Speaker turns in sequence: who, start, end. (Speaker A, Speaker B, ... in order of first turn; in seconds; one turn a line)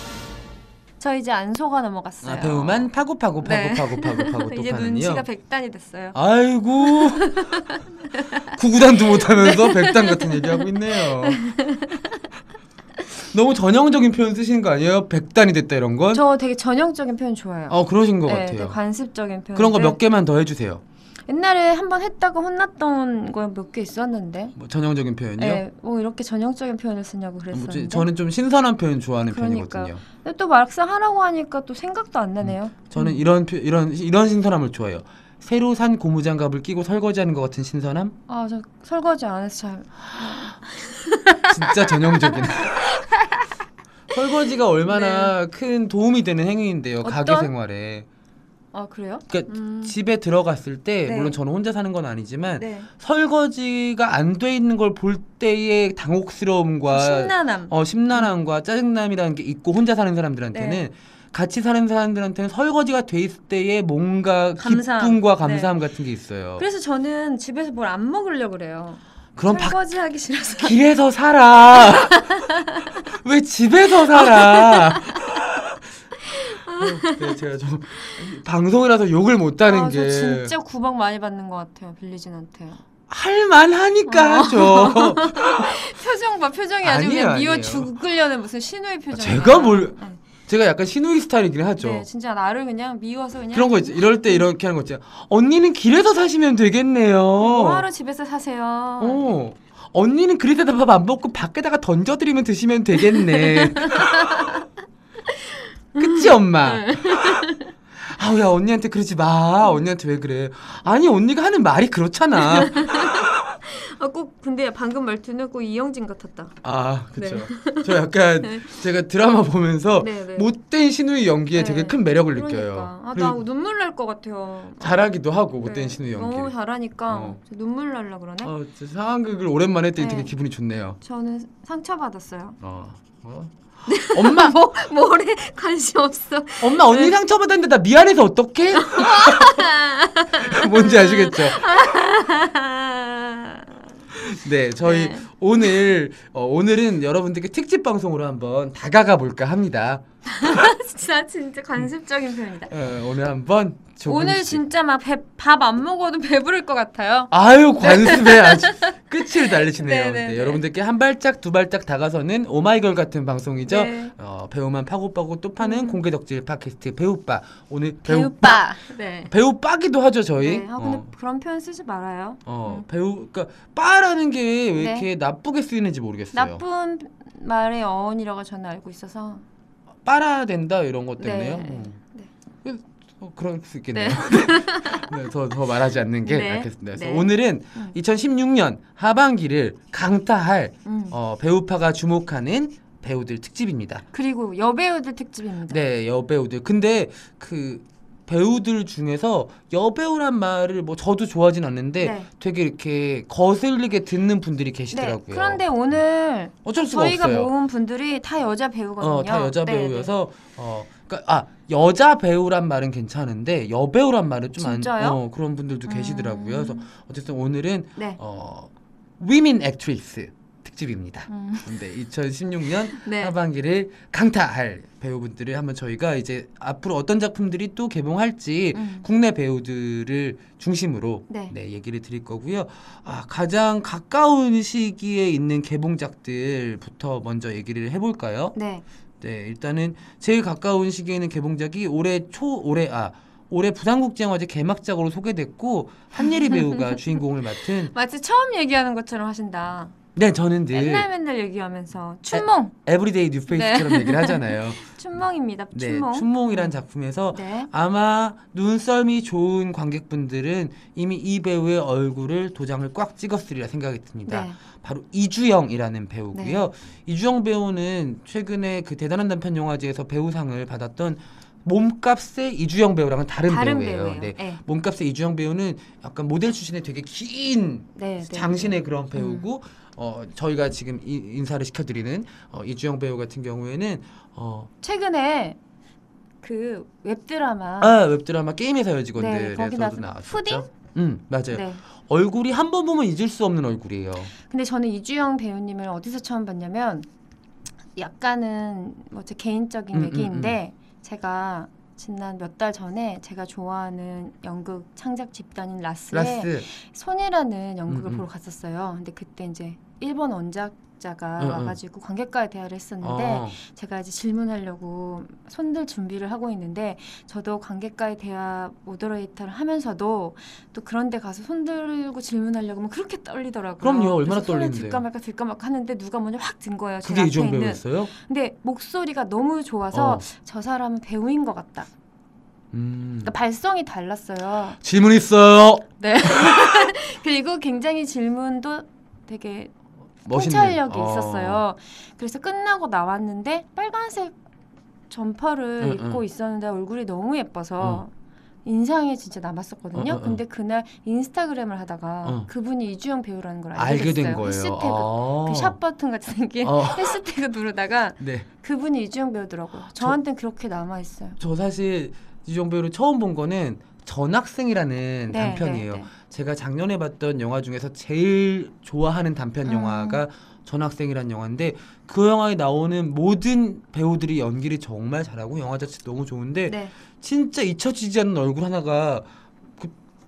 Speaker A: 1.0-2.9
Speaker B: 2.2-5.2
Speaker A: 3.4-6.2
Speaker B: 6.1-7.4
Speaker A: 6.8-12.3
Speaker B: 8.5-11.4
Speaker B: 13.3-16.2
Speaker A: 16.1-20.0
Speaker B: 17.7-18.8
Speaker B: 19.5-20.8
Speaker A: 21.3-24.5
Speaker B: 24.5-25.6
Speaker A: 25.4-28.1
Speaker B: 27.5-30.0
Speaker A: 29.3-33.2
Speaker B: 32.4-38.1
Speaker A: 38.3-43.5
Speaker B: 41.5-43.1
Speaker B: 44.1-48.1
Speaker A: 44.9-45.3
Speaker A: 47.0-47.5
Speaker A: 48.7-49.9
Speaker B: 49.3-66.7
Speaker A: 51.0-51.4
Speaker A: 52.6-52.9
Speaker A: 56.9-58.3
Speaker A: 60.5-60.8
Speaker A: 64.6-65.7
Speaker A: 66.6-70.7
Speaker B: 69.3-69.8
Speaker B: 70.5-75.8
Speaker A: 71.7-73.0
Speaker A: 73.9-75.2
Speaker A: 76.2-77.4
Speaker B: 76.8-80.5
Speaker A: 77.9-78.2
Speaker A: 79.7-82.8
Speaker B: 83.1-85.9
Speaker A: 84.0-90.2
Speaker B: 86.8-87.9
Speaker B: 89.1-92.0
Speaker A: 91.8-94.5
Speaker B: 93.5-97.8
Speaker A: 97.4-99.3
Speaker B: 99.0-104.6
Speaker A: 103.0-104.7
Speaker A: 105.3-107.7
Speaker B: 106.0-107.5
Speaker B: 108.0-113.6
Speaker A: 112.3-116.5
Speaker B: 116.6-123.4
Speaker A: 117.2-118.8
Speaker A: 120.0-120.5
Speaker A: 121.5-125.0
Speaker B: 124.8-126.5
Speaker A: 125.6-128.5
Speaker B: 127.1-127.4
Speaker B: 128.4-131.0
Speaker A: 130.0-130.3
Speaker A: 131.0-132.6
Speaker B: 132.6-134.5
Speaker A: 133.9-137.2
Speaker B: 136.6-139.7
Speaker A: 138.8-143.8
Speaker B: 140.4-141.7
Speaker B: 144.1-150.7
Speaker A: 144.8-145.8
Speaker A: 150.3-152.7
Speaker B: 152.7-154.6
Speaker A: 154.0-160.6
Speaker B: 157.3-168.6
Speaker A: 163.7-164.1
Speaker A: 165.6-166.0
Speaker A: 168.0-169.3
Speaker B: 169.3-171.1
Speaker A: 170.4-172.8
Speaker B: 172.4-176.6
Speaker A: 174.8-175.1
Speaker A: 176.3-179.4
Speaker B: 180.0-181.9
Speaker A: 181.2-182.3
Speaker B: 182.6-194.0
Speaker A: 183.9-185.1
Speaker A: 186.2-187.9
Speaker A: 190.8-191.1
Speaker A: 194.1-195.8
Speaker B: 195.7-205.6
Speaker A: 202.0-202.3
Speaker A: 204.9-210.1
Speaker B: 206.6-207.5
Speaker B: 209.0-238.5
Speaker A: 214.6-215.2
Speaker A: 215.8-216.9
Speaker A: 221.3-221.8
Speaker A: 222.9-223.3
Speaker A: 228.7-229.1
Speaker A: 231.3-231.5
Speaker A: 238.5-238.8
Speaker B: 239.2-247.9
Speaker A: 246.5-247.0
Speaker A: 247.9-249.9
Speaker B: 250.2-251.1
Speaker A: 250.7-252.7
Speaker B: 252.3-254.8
Speaker A: 253.5-256.7
Speaker B: 255.7-284.7
Speaker A: 257.3-257.7
Speaker A: 264.3-264.6
Speaker A: 266.3-266.7
Speaker A: 273.5-274.6
Speaker A: 277.9-279.5
Speaker A: 284.8-285.6
Speaker A: 286.4-287.9
Speaker B: 287.8-294.3
Speaker A: 289.1-290.7
Speaker A: 291.5-291.8
Speaker A: 294.4-297.1
Speaker A: 297.9-331.9
Speaker B: 299.9-300.6
Speaker B: 306.1-306.7
Speaker B: 307.9-308.2
Speaker B: 311.4-311.8
Speaker B: 313.0-313.6
Speaker B: 323.8-325.0
Speaker B: 327.0-328.1
Speaker B: 329.9-330.3
Speaker B: 332.7-333.3
Speaker A: 333.2-334.8
Speaker B: 334.8-336.8
Speaker A: 336.0-339.7
Speaker B: 340.2-341.6
Speaker A: 340.3-344.4
Speaker A: 345.1-348.1
Speaker B: 345.8-346.2
Speaker B: 347.8-348.0
Speaker A: 348.6-361.4
Speaker B: 349.9-350.4
Speaker B: 353.7-355.8
Speaker B: 356.6-357.2
Speaker B: 358.2-358.5
Speaker B: 361.4-379.2
Speaker A: 365.3-366.1
Speaker A: 369.6-370.2
Speaker A: 376.7-376.9